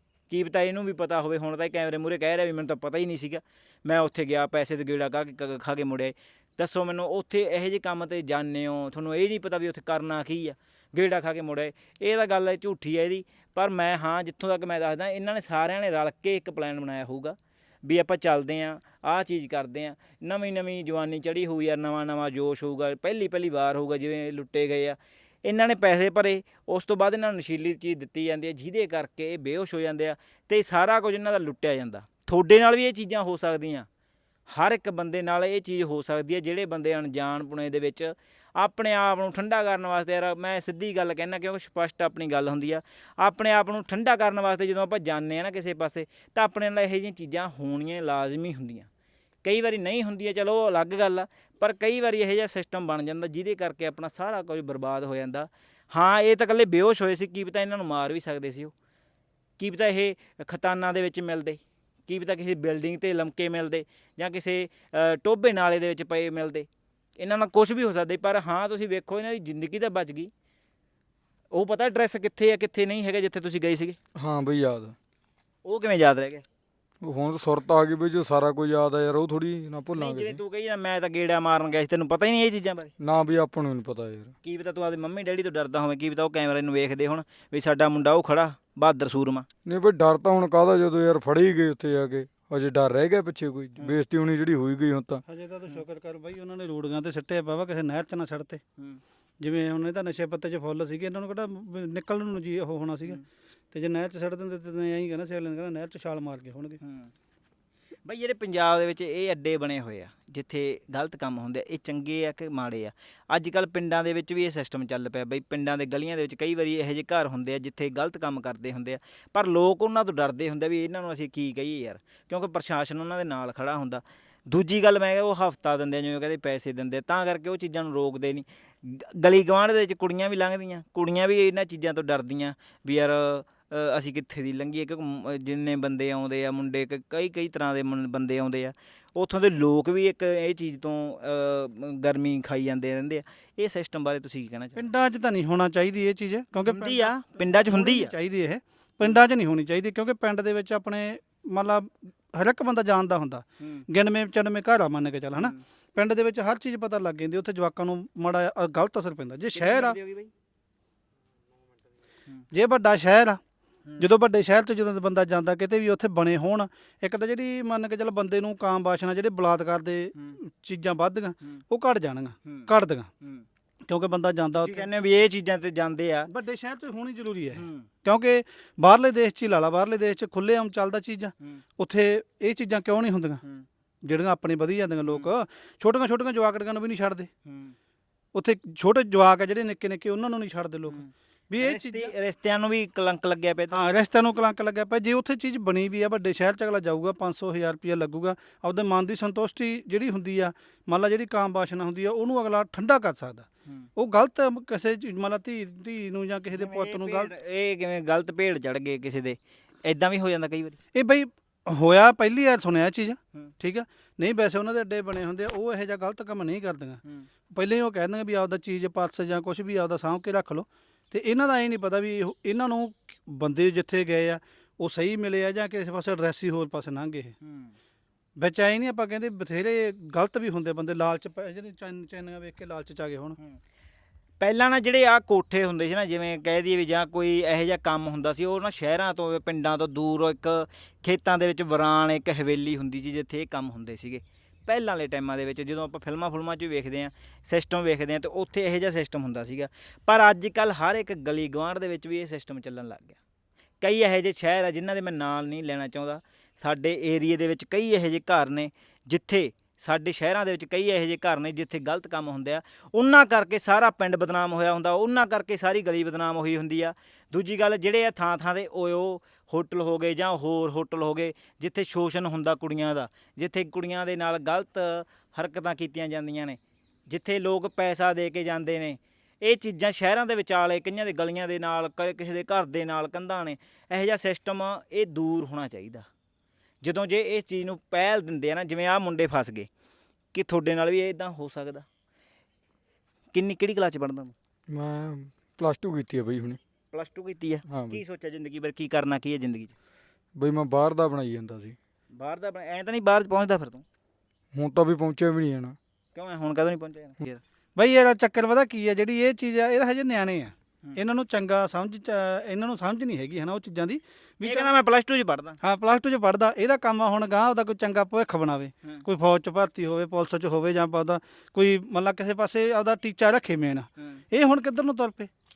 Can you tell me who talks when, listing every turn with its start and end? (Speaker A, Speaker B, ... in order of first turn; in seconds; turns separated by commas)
Speaker A: 0.3-33.9, Speaker A: 34.5-48.9, Speaker A: 49.4-58.7, Speaker A: 59.6-70.3, Speaker A: 71.5-74.0, Speaker B: 74.1-75.0, Speaker A: 75.6-76.4, Speaker B: 77.0-80.4, Speaker A: 80.0-82.9, Speaker B: 83.0-84.3, Speaker A: 84.4-89.5, Speaker B: 89.6-95.2, Speaker C: 95.3-98.6, Speaker C: 99.4-103.2, Speaker C: 103.7-106.8, Speaker A: 106.8-107.1, Speaker A: 108.0-144.8, Speaker C: 144.8-160.0, Speaker A: 146.6-148.1, Speaker A: 155.4-155.6, Speaker A: 159.5-160.3, Speaker C: 162.5-163.4, Speaker C: 164.0-173.1, Speaker C: 173.9-174.9, Speaker A: 174.6-176.3, Speaker C: 176.3-183.4, Speaker A: 177.5-177.9, Speaker C: 184.0-187.3, Speaker A: 185.0-185.3, Speaker A: 187.4-187.7, Speaker C: 188.3-192.1, Speaker A: 190.9-193.8, Speaker C: 193.7-207.3, Speaker A: 206.5-210.8, Speaker C: 210.9-217.0, Speaker C: 217.5-227.3, Speaker A: 227.4-227.7, Speaker C: 228.4-233.4, Speaker A: 234.4-253.2, Speaker A: 253.8-286.1, Speaker A: 286.8-289.7, Speaker A: 290.3-291.9, Speaker A: 293.3-294.3, Speaker B: 294.7-296.6, Speaker A: 296.9-299.7, Speaker B: 297.7-298.0, Speaker B: 300.4-301.8, Speaker A: 302.1-303.8, Speaker B: 304.5-305.8, Speaker A: 306.1-307.4, Speaker C: 307.8-314.7, Speaker A: 314.4-315.6, Speaker C: 315.6-325.3